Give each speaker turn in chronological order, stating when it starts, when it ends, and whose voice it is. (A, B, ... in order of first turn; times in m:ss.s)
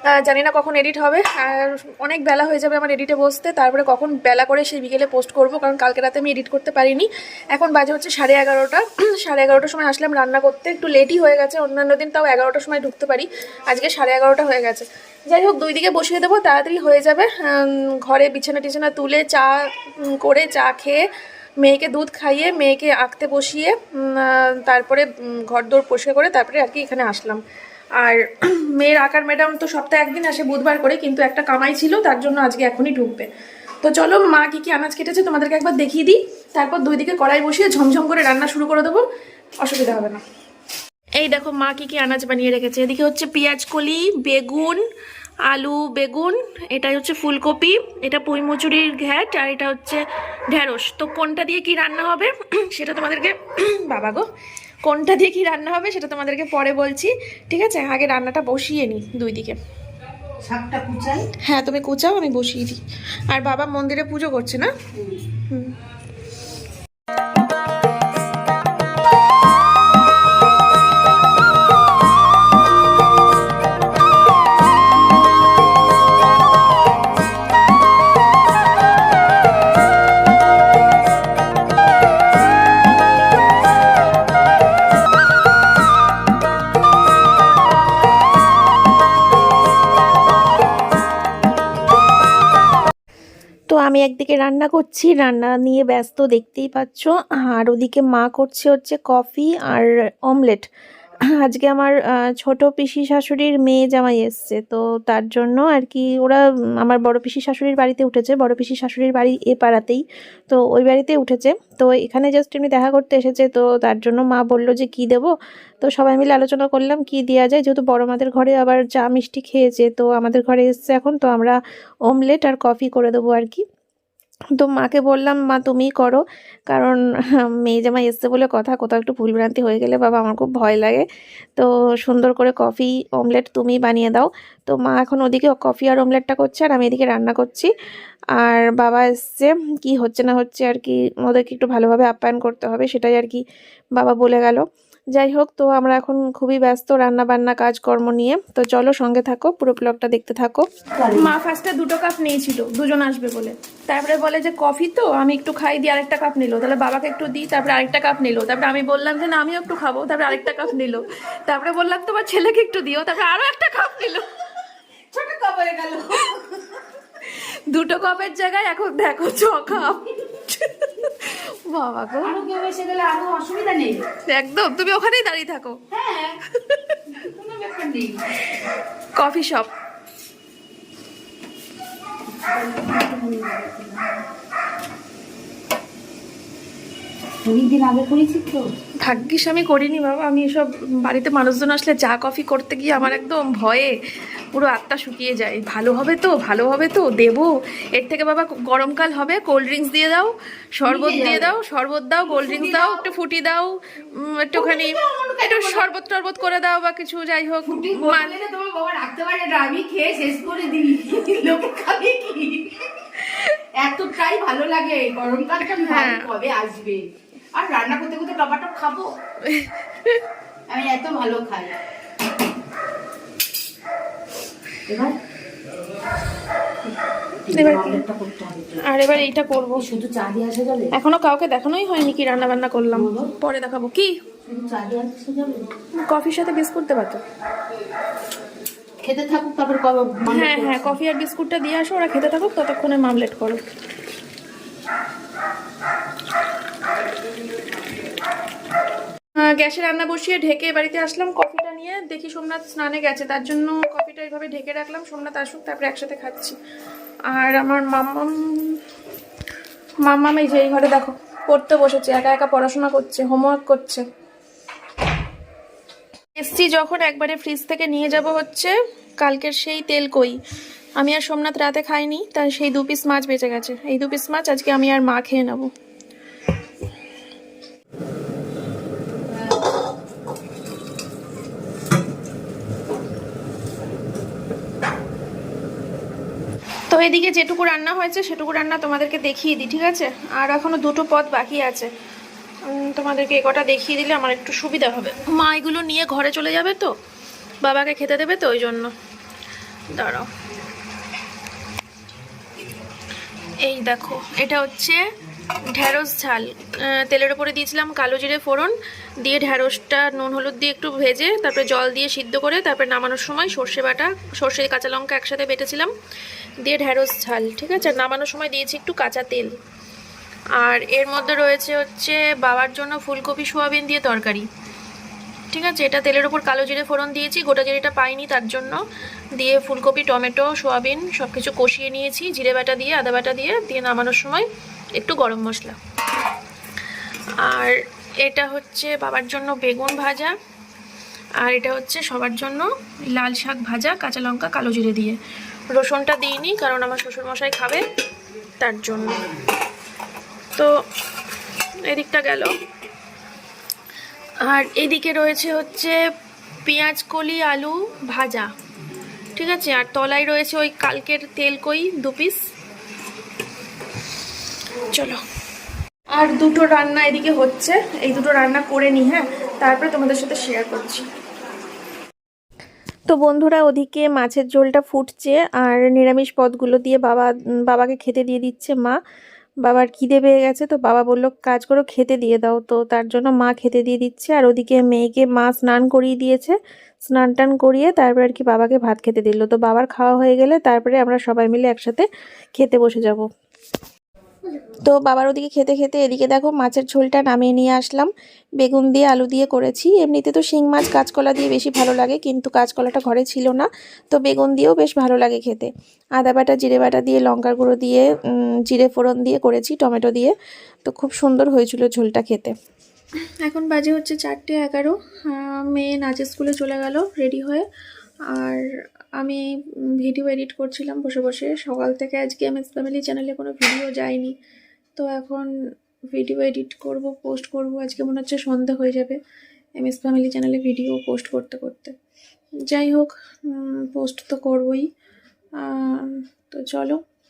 0:00.2-0:21.0 A
0:21.6-0:27.4 A
0:28.0-0:33.3 A
0:33.8-0:39.0 A
0:39.6-0:40.2 A
0:41.2-0:44.8 A
0:45.5-0:54.2 A
0:54.8-0:59.6 A
1:00.5-1:01.0 B
1:01.4-1:04.7 A
1:33.7-1:40.7 A
1:41.3-2:03.6 A
2:04.6-2:17.7 A
2:18.4-2:23.4 A
2:23.9-2:44.2 A
2:31.0-2:31.3 B
2:45.1-2:46.6 B
2:47.2-2:52.4 A
2:52.2-2:54.0 B
2:54.3-2:55.8 A
2:55.9-2:56.4 B
2:56.6-2:57.0 A
2:57.2-2:58.2 B
2:59.1-2:59.7 A
3:02.3-3:04.2 B
3:07.4-3:08.6 B
3:09.0-3:13.9 A
3:14.5-3:28.4 A
3:20.8-3:21.5 B
3:22.3-3:23.0 B
3:24.6-3:25.9 B
3:27.7-3:32.8 B
3:33.2-3:33.6 A
3:33.8-3:37.0 B
3:35.7-3:36.3 A
3:37.6-3:39.1 B
3:39.4-3:40.2 A
3:40.7-3:41.7 B
3:44.9-3:45.1 B
3:47.5-3:48.8 B
3:47.5-3:48.0 A
3:48.8-3:49.8 A
3:49.8-3:50.9 B
3:50.9-3:54.1 A
3:52.9-3:53.3 B
3:54.5-3:55.7 B
3:56.0-3:57.2 A
3:59.0-4:00.9 B
4:00.2-4:03.6 A
4:09.4-4:16.6 A
4:17.3-4:18.8 A
4:20.0-4:24.0 A
4:26.4-4:30.4 A
4:31.0-4:35.7 A
4:46.9-4:51.9 A
4:52.6-4:56.9 A
4:57.6-4:58.9 A
4:59.9-5:00.3 A
5:03.6-5:05.0 A
5:05.7-5:15.9 A
5:16.6-5:19.5 A
5:20.6-5:24.5 A
5:25.5-5:28.8 A
5:29.4-5:35.8 A
5:37.4-5:40.3 A
5:41.4-5:45.2 A
5:45.7-5:47.8 A
5:48.6-5:49.2 A
5:51.8-5:52.5 A
5:54.4-5:56.0 A
5:56.6-5:58.5 A
5:59.4-6:02.4 A
6:04.9-6:05.2 A
6:06.1-6:11.0 A
6:13.1-6:19.0 A
6:19.6-6:33.2 A
6:34.8-6:52.5 A
6:53.4-6:57.6 A
6:58.3-6:58.7 A
6:59.2-6:59.4 A
7:00.0-7:04.3 A
7:05.0-7:05.5 A
7:06.1-7:09.2 A
7:09.8-7:12.0 A
7:12.7-7:14.9 A
7:15.6-7:17.0 A